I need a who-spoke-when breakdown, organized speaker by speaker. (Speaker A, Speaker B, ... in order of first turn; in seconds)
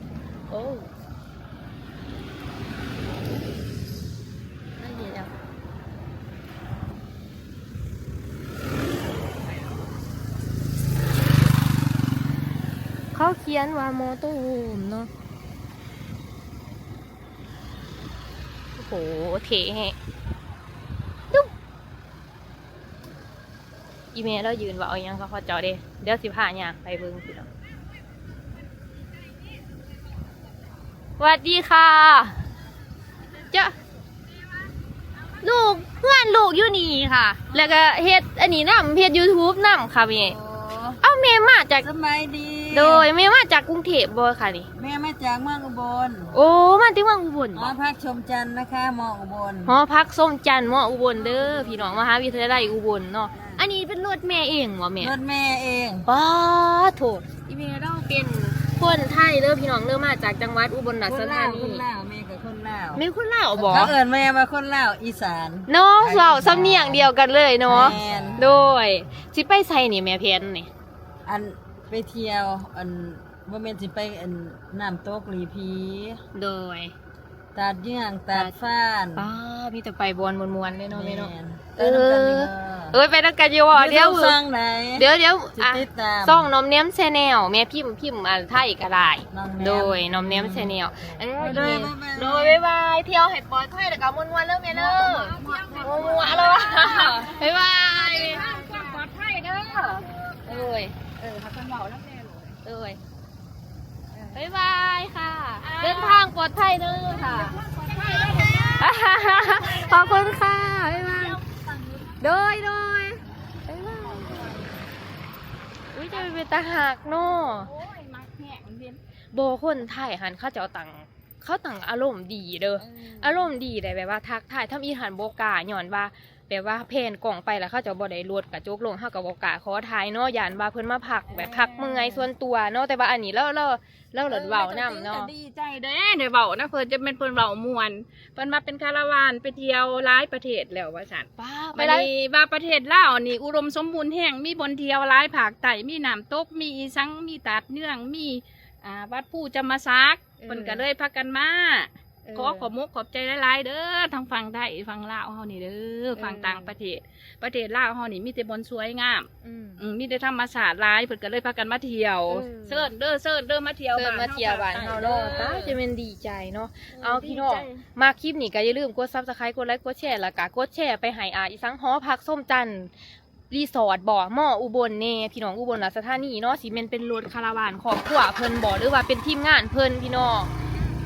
Speaker A: 0.5-0.9, 4.8-5.3, 13.1-15.1, 18.8-19.9, 24.1-27.5, 31.2-32.4, 35.4-40.4, 41.0-41.9, 42.7-44.7, 46.3-47.7, 49.6-55.1, 56.0-61.8, 62.9-63.9, 65.7-70.7, 76.3-76.9, 79.2-84.4, 85.0-99.0, 99.7-101.0, 102.6-103.0, 104.3-107.6, 108.7-111.4, 112.2-114.5, 115.9-117.7, 119.3-135.3, 141.4-142.1, 150.4-150.8, 152.2-152.7, 156.1-156.7, 159.4-159.8, 162.3-162.9, 163.9-172.9, 173.5-180.5
Speaker B: 40.2-41.0, 41.8-43.1, 44.7-46.4, 47.5-49.7, 51.5-51.9, 53.3-53.6, 55.0-56.1, 61.0-63.0, 63.6-67.1, 67.7-68.6, 71.2-76.2, 77.5-79.3, 80.9-83.0, 83.7-86.5, 89.3-92.6
Speaker C: 94.7-102.6, 105.6-106.3, 107.1-110.4, 111.0-112.1, 114.0-114.7, 117.2-119.0, 122.8-123.5, 131.3-132.3, 134.3-165.8, 166.9-167.8